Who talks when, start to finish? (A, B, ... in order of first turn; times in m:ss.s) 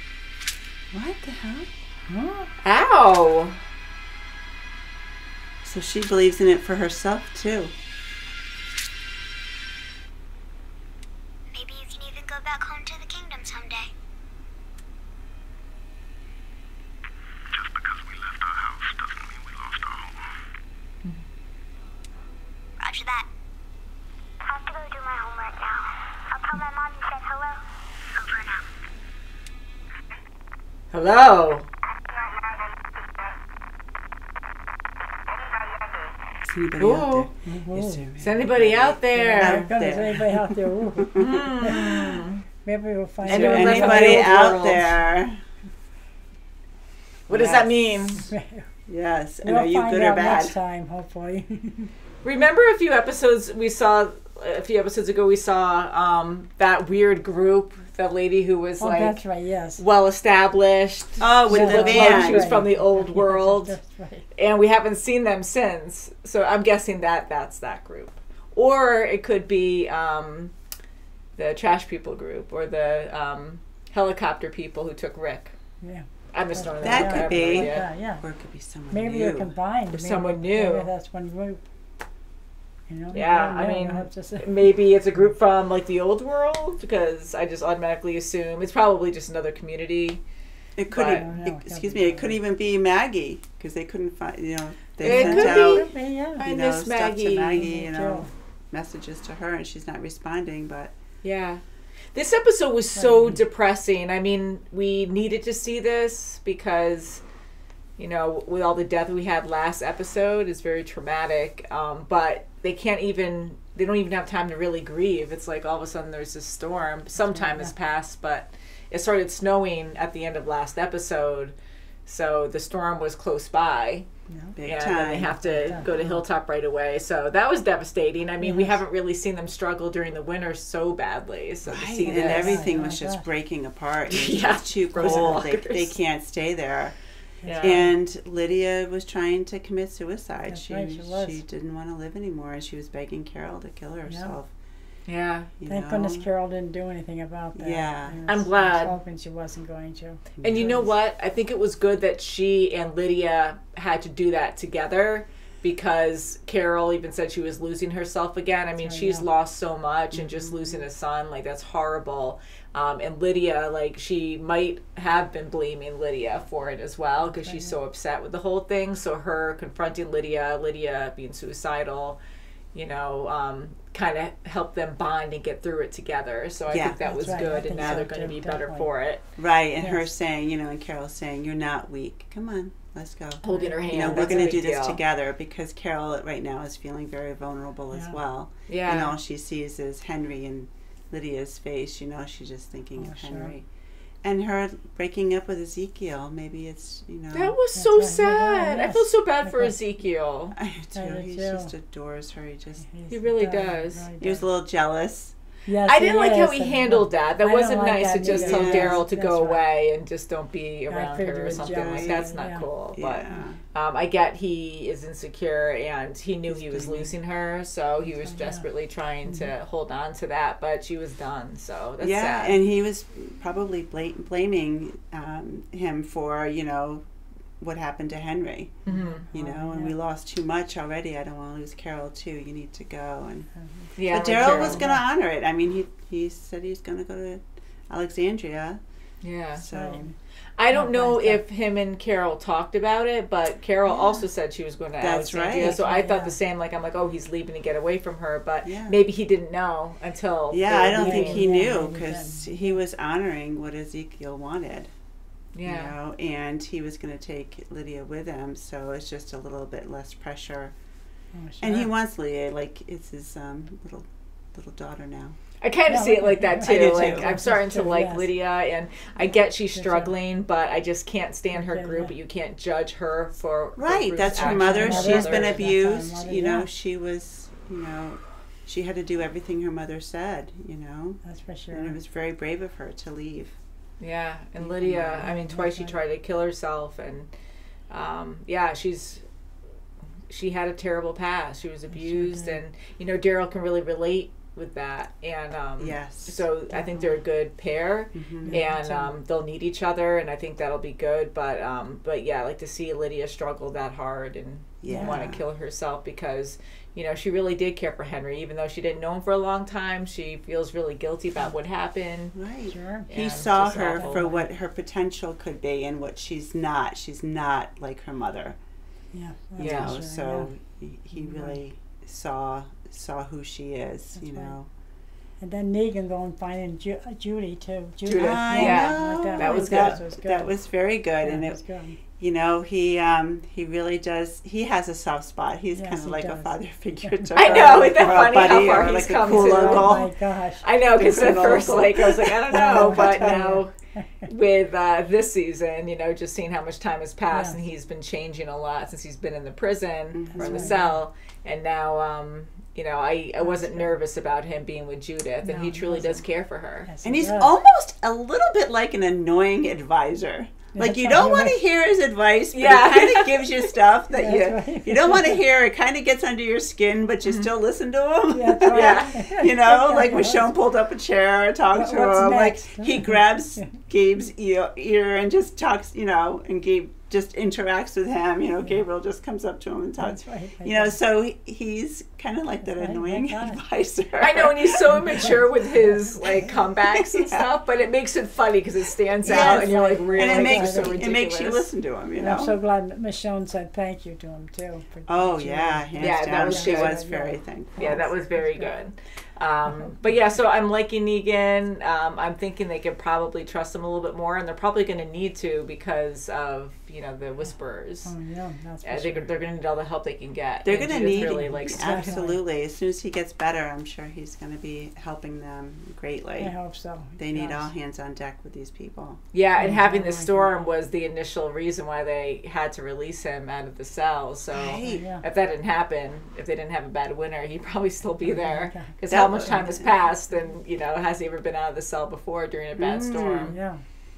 0:00.9-0:01.7 A
0:02.1-0:02.5 B
0:02.6-0:03.6 C
0:05.6-0:07.7 A
0:11.5-0:13.9 D
0:17.5-0:20.2 E
0:22.8-0:23.3 D
0:24.4-0:28.7 D
0:30.9-0:31.7 C
0:36.4-0:41.5 A
0:36.8-0:37.3 C
0:37.4-0:38.1 B
0:38.2-0:39.7 C
0:39.1-0:41.9 B
0:41.1-0:42.4 C
0:42.6-0:44.4 B
0:43.2-0:44.9 C
0:43.2-0:45.4 A
0:47.3-0:48.3 C
0:47.3-0:47.7 A
0:48.2-0:48.7 B
0:48.9-0:50.5 A
0:49.4-0:51.9 B
0:52.2-0:59.2 C
0:58.8-0:59.8 B
0:59.8-1:03.7 C
1:01.2-1:02.6 A
1:01.5-1:04.2 B
1:04.4-1:10.5 C
1:11.4-1:15.5 C
1:15.8-1:18.2 B
1:16.3-1:17.9 C
1:16.8-1:19.5 A
1:18.9-1:21.6 B
1:19.9-1:20.9 C
1:22.9-1:24.7 B
1:23.1-1:30.2 C
1:30.8-1:35.9 A
1:30.9-1:31.2 C
1:30.9-1:32.4 B
1:35.0-1:37.7 C
1:35.0-1:36.4 B
1:36.4-1:40.9 A
1:37.6-1:38.3 B
1:41.2-1:41.6 C
1:42.1-1:47.2 C
1:43.0-1:43.4 B
1:48.0-2:01.5 C
1:57.2-1:57.7 B
2:02.0-2:04.1 C
2:04.3-2:04.5 B
2:04.6-2:05.4 A
2:04.6-2:12.7 C
2:05.4-2:06.2 B
2:08.4-2:08.8 B
2:11.6-2:16.9 A
2:12.1-2:13.2 B
2:14.1-2:15.9 C
2:15.0-2:15.4 B
2:17.4-2:17.8 B
2:17.4-2:17.8 C
2:17.6-2:24.5 A
2:20.5-2:21.4 B
2:24.1-2:24.3 B
2:25.1-2:25.5 C
2:25.6-2:26.3 A
2:25.6-2:30.2 B
2:27.5-2:28.2 A
2:28.3-2:29.0 C
2:30.4-2:30.9 A
2:30.4-2:52.2 C
2:38.8-2:39.2 B
2:40.1-2:40.8 A
2:47.2-2:47.7 B
2:52.7-2:59.2 C
2:56.7-2:57.0 A
2:57.0-2:58.9 B
2:57.7-2:58.0 A
2:59.4-3:13.6 A
2:59.8-3:00.1 B
3:03.4-3:05.0 C
3:03.5-3:04.5 B
3:07.9-3:08.2 B
3:08.7-3:09.2 C
3:13.0-3:13.5 B
3:14.2-3:17.5 A
3:17.3-3:20.5 C
3:17.7-3:19.8 B
3:20.6-3:22.8 A
3:21.0-3:21.7 B
3:22.8-3:24.4 B
3:23.1-3:24.0 C
3:24.2-3:25.3 A
3:25.6-3:29.6 B
3:25.8-3:42.6 C
3:28.2-3:29.0 A
3:30.9-3:32.7 B
3:31.5-3:32.3 A
3:32.9-3:33.6 A
3:36.5-3:37.1 A
3:38.1-3:38.7 B
3:39.2-3:39.5 B
3:42.0-3:47.0 A
3:47.6-3:58.8 A
3:48.8-3:50.0 B
3:48.9-3:49.2 C
3:53.6-3:55.0 B
3:54.0-3:54.8 C
3:59.2-3:59.6 C
3:59.6-4:00.1 A
3:59.7-4:00.1 B
4:00.6-4:11.5 C
4:00.7-4:01.4 B
4:03.9-4:04.2 A
4:05.0-4:05.8 A
4:05.6-4:06.4 B
4:08.6-4:09.0 A
4:10.5-4:14.9 A
4:11.0-4:12.8 B
4:15.5-4:15.9 C
4:15.6-4:20.7 A
4:21.3-4:21.9 B
4:21.6-4:25.4 A
4:25.6-4:35.7 C
4:25.9-4:28.3 B
4:26.6-4:27.4 A
4:29.7-4:30.1 B
4:31.5-4:32.1 B
4:33.8-4:41.2 A
4:34.3-4:36.7 B
4:41.2-4:41.9 B
4:41.7-4:43.5 A
4:44.0-4:47.3 C
4:44.7-4:46.0 B
4:47.9-4:49.2 C
4:50.3-5:12.4 C
4:51.9-4:52.6 B
4:55.8-4:56.4 A
4:56.7-4:57.2 B
4:58.1-4:58.6 A
4:58.5-4:59.1 B
5:04.8-5:05.4 A
5:04.9-5:05.2 B
5:12.3-5:18.6 A
5:12.7-5:13.1 B
5:13.1-5:14.2 C
5:14.0-5:14.4 B
5:19.1-5:20.5 B
5:19.6-5:24.7 A
5:19.6-5:19.9 C
5:21.1-5:21.6 B
5:24.1-5:24.5 B
5:25.4-5:30.5 B
5:28.0-5:30.0 C
5:28.1-5:31.6 A
5:31.2-5:32.0 B
5:32.1-5:40.1 A
5:35.7-5:38.3 B
5:37.4-5:40.1 C
5:39.2-5:40.6 B
5:40.6-5:43.7 C
5:41.0-5:43.5 A
5:41.2-5:41.8 B
5:42.5-5:44.0 B
5:44.3-5:56.9 C
5:47.3-5:47.6 B
5:50.1-5:50.8 A
5:50.3-5:51.0 B
5:53.4-5:54.0 B
5:55.4-5:56.2 B
5:56.8-5:57.5 B
5:57.0-6:25.3 A
6:00.7-6:01.6 B
6:02.5-6:03.7 C
6:04.1-6:05.4 B
6:08.3-6:10.5 B
6:08.7-6:09.1 C
6:11.7-6:13.8 B
6:20.0-6:21.0 B
6:22.6-6:23.6 B
6:24.2-6:31.6 C
6:26.8-6:27.5 A
6:29.2-6:32.5 A
6:29.3-6:31.1 B
6:32.2-6:38.7 B
6:35.1-6:38.1 A
6:36.0-6:37.0 C
6:37.8-6:48.1 C
6:48.0-6:49.4 B
6:48.8-6:52.2 C
6:50.6-6:56.5 A
6:51.2-6:52.4 B
6:56.4-6:57.7 B
6:57.2-6:59.2 A
6:59.3-7:13.6 C
6:59.6-7:00.6 B
7:04.5-7:05.1 A
7:04.8-7:05.2 B
7:08.2-7:08.9 B
7:09.1-7:09.9 A
7:12.8-7:13.5 A
7:13.4-7:13.8 B